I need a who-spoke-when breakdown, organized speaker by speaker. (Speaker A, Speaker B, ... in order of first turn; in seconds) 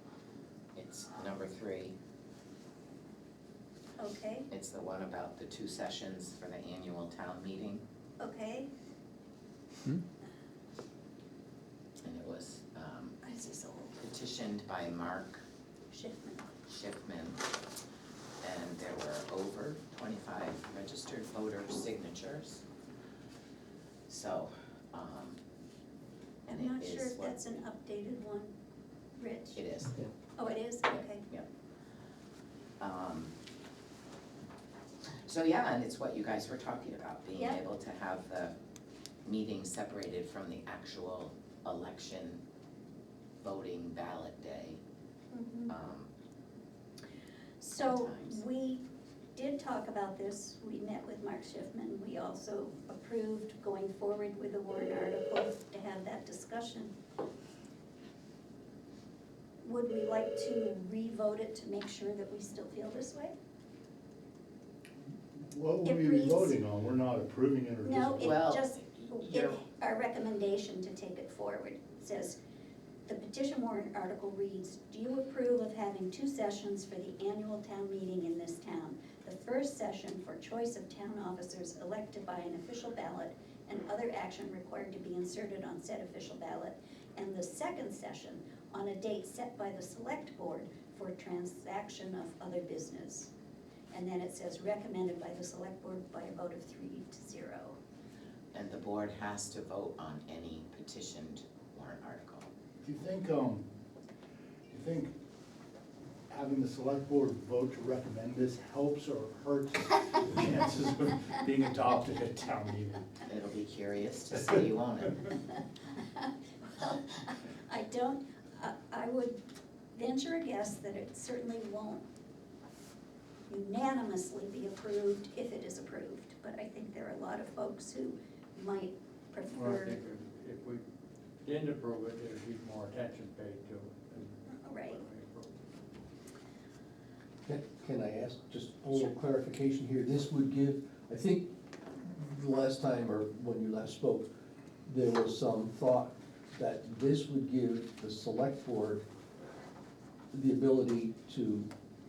Speaker A: 0.8-1.9, 4.5-7.8, 12.0-13.2, 14.0-15.4, 16.7-17.4, 18.4-22.6, 24.1-25.4, 26.5-27.4, 29.5-30.0, 32.8-33.3, 35.2-38.5, 39.2-42.4, 43.4-44.8, 45.7-46.1, 47.8-48.4, 68.2-69.6, 98.5-102.5, 113.2-115.2
Speaker B: 4.0-4.5, 8.2-8.7, 13.2-14.0, 15.9-16.5, 26.5-28.5, 29.1-29.6, 30.4-31.2, 45.3-45.7, 47.6-48.8, 49.3-56.9, 59.6-63.3, 65.8-66.5, 67.8-72.4, 73.0-93.3, 93.9-97.8, 116.0-119.4, 119.9-122.0, 123.5-130.0, 134.5-135.0
Speaker C: 65.3-68.3, 102.8-103.6, 104.7-105.1, 106.3-113.0
Speaker D: 129.5-130.8, 131.4-135.6
Speaker E: 137.4-144.3, 144.9-149.0, 150.3-151.7